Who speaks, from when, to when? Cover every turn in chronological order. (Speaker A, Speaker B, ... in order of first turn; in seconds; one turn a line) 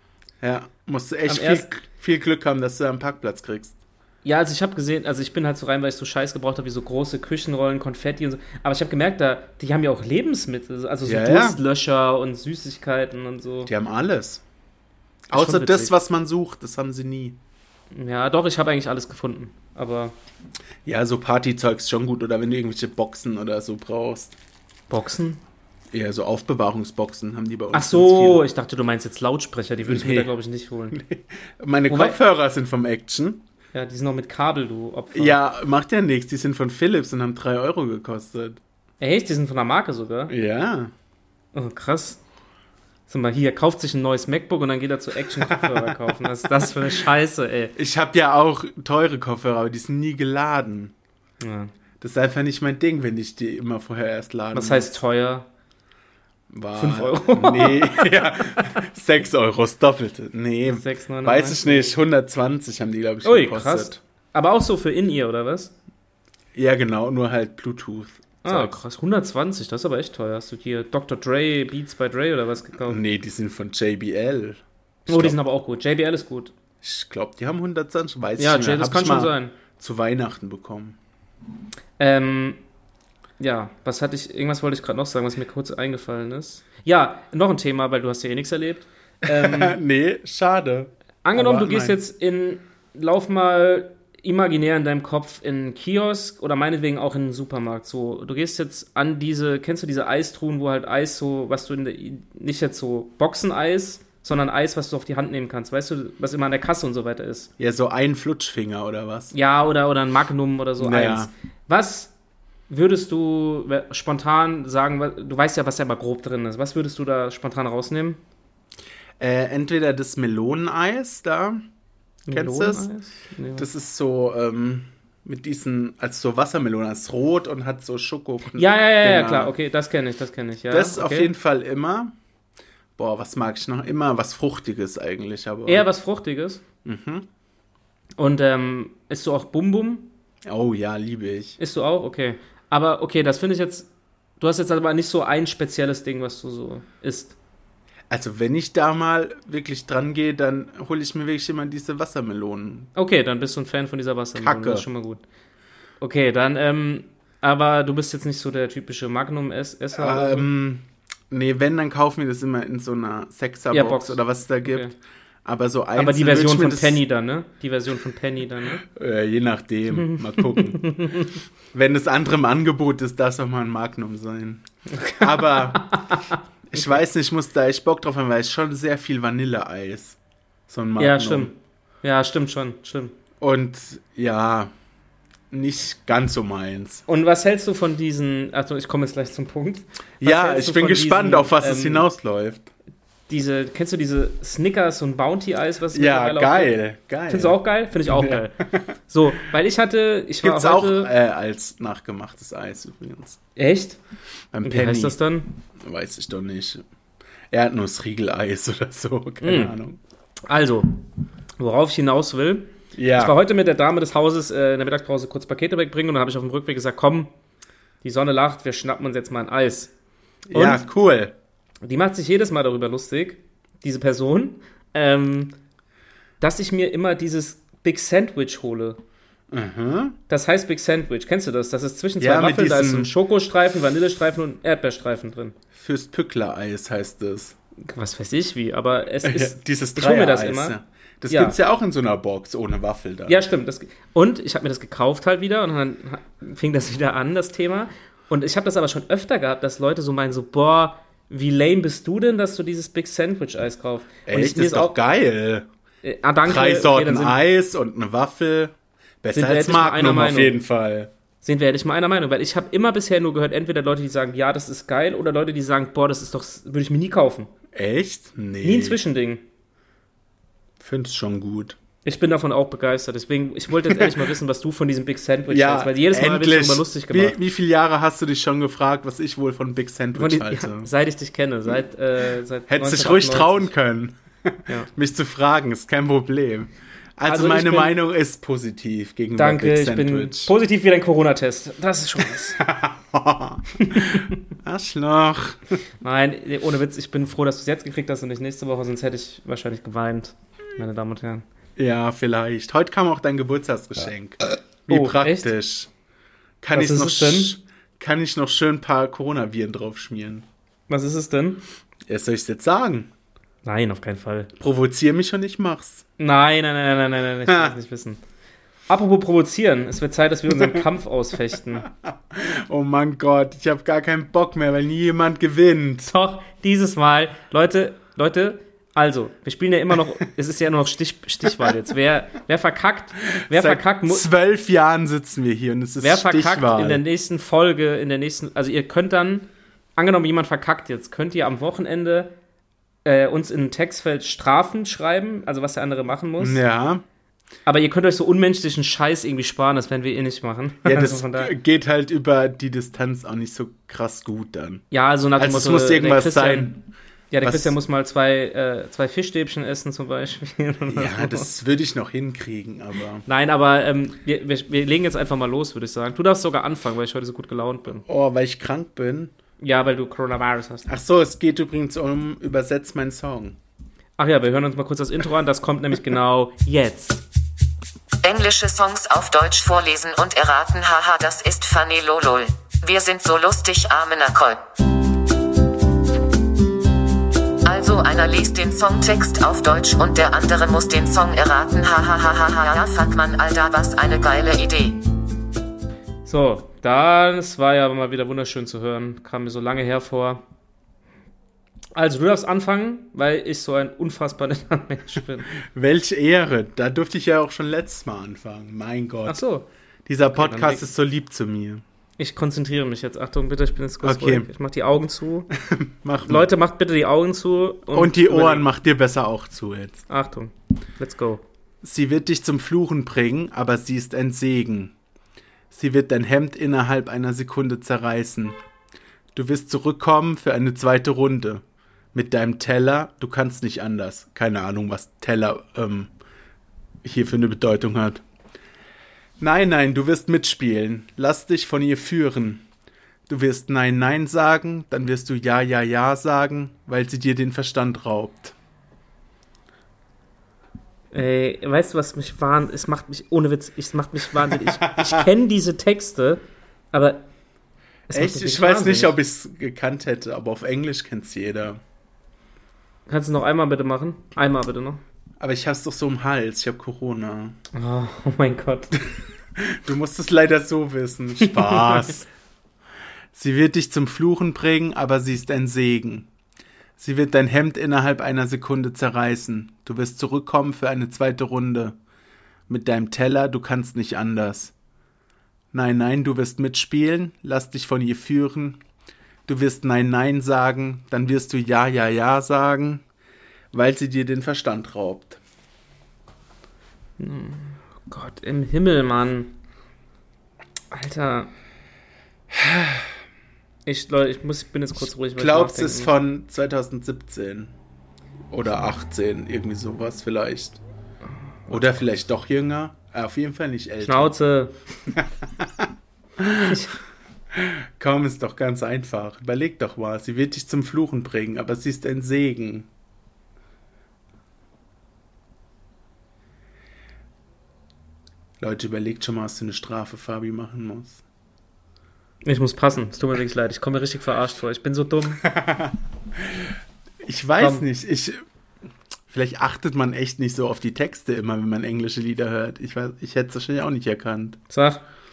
Speaker A: 0.4-3.8
Speaker B: 1.3-1.6
Speaker B: 4.2-13.7
Speaker A: 11.0-11.6
Speaker A: 13.7-14.4
Speaker A: 15.3-17.4
Speaker B: 15.3-15.9
Speaker B: 17.9-20.1
Speaker A: 20.8-24.3
Speaker B: 24.9-25.4
Speaker A: 25.9-28.4
Speaker B: 27.7-31.0
Speaker A: 29.9-30.3
Speaker A: 30.9-33.4
Speaker B: 31.9-32.2
Speaker B: 33.7-35.4
Speaker A: 35.1-38.6
Speaker B: 39.0-40.3
Speaker A: 40.3-40.9
Speaker B: 41.5-42.2
Speaker B: 43.1-47.7
Speaker A: 45.5-45.9
Speaker A: 47.8-50.9
Speaker B: 51.4-51.7
Speaker A: 52.0-55.0
Speaker B: 54.5-55.5
Speaker A: 56.5-64.0
Speaker B: 56.8-58.8
Speaker B: 60.7-62.0
Speaker B: 63.2-65.7
Speaker A: 66.5-68.8
Speaker B: 68.4-73.0
Speaker A: 72.8-75.4
Speaker B: 75.1-76.5
Speaker A: 76.8-81.0
Speaker B: 78.4-79.5
Speaker B: 82.0-82.6
Speaker B: 83.4-89.8
Speaker A: 89.3-92.0
Speaker B: 91.2-107.5
Speaker A: 107.6-109.3
Speaker B: 109.3-112.1
Speaker A: 110.8-111.3
Speaker B: 112.7-118.2
Speaker A: 119.2-121.7
Speaker B: 122.3-123.7
Speaker A: 122.3-122.9
Speaker A: 123.5-129.5
Speaker B: 128.5-131.3
Speaker A: 130.7-132.1
Speaker A: 133.0-135.9
Speaker B: 135.7-136.6
Speaker A: 136.8-137.3
Speaker B: 138.2-140.1
Speaker A: 140.4-141.6
Speaker B: 141.6-147.3
Speaker A: 148.1-152.9
Speaker B: 152.9-155.2
Speaker A: 154.4-154.8
Speaker B: 156.0-160.5
Speaker A: 160.0-164.9
Speaker B: 163.7-164.9
Speaker A: 165.4-167.0
Speaker B: 165.9-168.8
Speaker A: 168.8-171.2
Speaker B: 169.9-171.3
Speaker A: 171.7-176.0
Speaker B: 174.9-176.2
Speaker A: 176.7-180.2
Speaker A: 180.7-181.5
Speaker B: 181.0-183.1
Speaker A: 183.4-184.7
Speaker A: 185.5-187.0
Speaker B: 187.1-192.1
Speaker A: 190.2-192.7
Speaker B: 193.3-196.8
Speaker A: 195.9-198.9
Speaker B: 197.3-198.5
Speaker B: 199.1-201.1
Speaker A: 200.4-203.4
Speaker B: 203.6-204.0
Speaker A: 204.5-205.2
Speaker B: 204.6-205.5
Speaker A: 205.8-206.8
Speaker A: 207.5-210.0
Speaker B: 209.4-209.7
Speaker B: 210.4-211.0
Speaker B: 211.6-217.3
Speaker A: 212.9-213.3
Speaker B: 218.0-219.9
Speaker A: 220.5-221.3
Speaker B: 220.5-220.8
Speaker B: 221.8-225.5
Speaker B: 226.4-229.0
Speaker A: 229.5-230.2
Speaker B: 230.3-235.5
Speaker A: 232.2-233.1
Speaker A: 235.8-237.6
Speaker B: 237.8-240.8
Speaker A: 239.2-243.4
Speaker B: 241.3-241.6
Speaker B: 243.3-254.9
Speaker A: 254.2-255.7
Speaker B: 256.0-257.4
Speaker A: 256.4-261.1
Speaker B: 259.3-260.6
Speaker B: 261.4-267.5
Speaker A: 267.7-269.0
Speaker B: 268.6-269.4
Speaker A: 270.8-271.8
Speaker B: 272.0-277.4
Speaker A: 275.5-280.9
Speaker B: 280.1-283.7
Speaker A: 282.7-290.5
Speaker B: 287.2-287.9
Speaker B: 289.4-292.6
Speaker A: 292.6-295.6
Speaker B: 293.8-294.3
Speaker B: 296.0-301.4
Speaker A: 301.8-305.9
Speaker B: 304.9-305.5
Speaker A: 306.6-310.4
Speaker B: 306.7-307.6
Speaker B: 310.9-311.6
Speaker A: 312.1-313.1
Speaker B: 313.6-314.5
Speaker A: 314.6-316.0
Speaker B: 316.2-318.2
Speaker A: 317.5-317.7
Speaker B: 318.9-321.9
Speaker A: 322.3-326.1
Speaker B: 326.1-334.2
Speaker A: 333.4-337.0
Speaker B: 336.0-342.3
Speaker B: 343.0-346.6
Speaker A: 346.4-347.0
Speaker B: 347.6-351.5
Speaker A: 350.8-354.8
Speaker B: 354.9-356.8
Speaker A: 355.4-356.8
Speaker B: 357.3-361.5
Speaker A: 357.4-357.7
Speaker A: 360.9-363.2
Speaker B: 363.2-368.0
Speaker A: 368.0-369.3
Speaker B: 369.6-370.9
Speaker A: 370.9-373.6
Speaker B: 374.2-377.2
Speaker C: 378.2-384.6
Speaker C: 387.6-395.0
Speaker B: 396.2-400.4
Speaker B: 401.9-405.5
Speaker A: 405.6-409.4
Speaker B: 409.3-409.7
Speaker A: 410.1-411.8
Speaker B: 410.3-410.8
Speaker B: 412.2-415.5
Speaker A: 414.0-414.5
Speaker A: 415.6-416.5
Speaker B: 416.2-418.7
Speaker A: 417.9-420.0
Speaker B: 420.1-421.4
Speaker A: 421.8-424.9
Speaker A: 425.7-428.6
Speaker A: 429.3-431.6
Speaker A: 432.1-436.1
Speaker A: 437.0-438.2
Speaker A: 439.4-442.6
Speaker A: 443.3-448.5
Speaker B: 451.1-457.3
Speaker A: 454.7-455.2
Speaker B: 458.1-459.2
Speaker A: 458.1-461.8
Speaker B: 463.1-465.0
Speaker A: 465.4-467.6
Speaker B: 467.7-468.9
Speaker A: 469.6-472.3
Speaker B: 471.4-472.1
Speaker A: 473.3-476.3
Speaker A: 477.0-481.9
Speaker A: 482.7-484.7
Speaker A: 485.7-488.8
Speaker A: 489.4-493.0
Speaker A: 493.7-495.4
Speaker B: 497.2-499.5
Speaker B: 500.9-501.5
Speaker B: 503.8-506.1
Speaker A: 505.3-507.7
Speaker A: 508.5-510.8
Speaker A: 511.7-514.3
Speaker B: 514.0-514.7
Speaker A: 515.2-515.9
Speaker A: 516.4-516.8
Speaker B: 516.6-517.0
Speaker A: 517.5-522.9
Speaker A: 528.6-531.2
Speaker B: 532.4-535.4
Speaker A: 535.5-535.9
Speaker A: 537.2-538.4
Speaker B: 537.6-537.8
Speaker A: 539.3-544.6
Speaker B: 544.7-545.0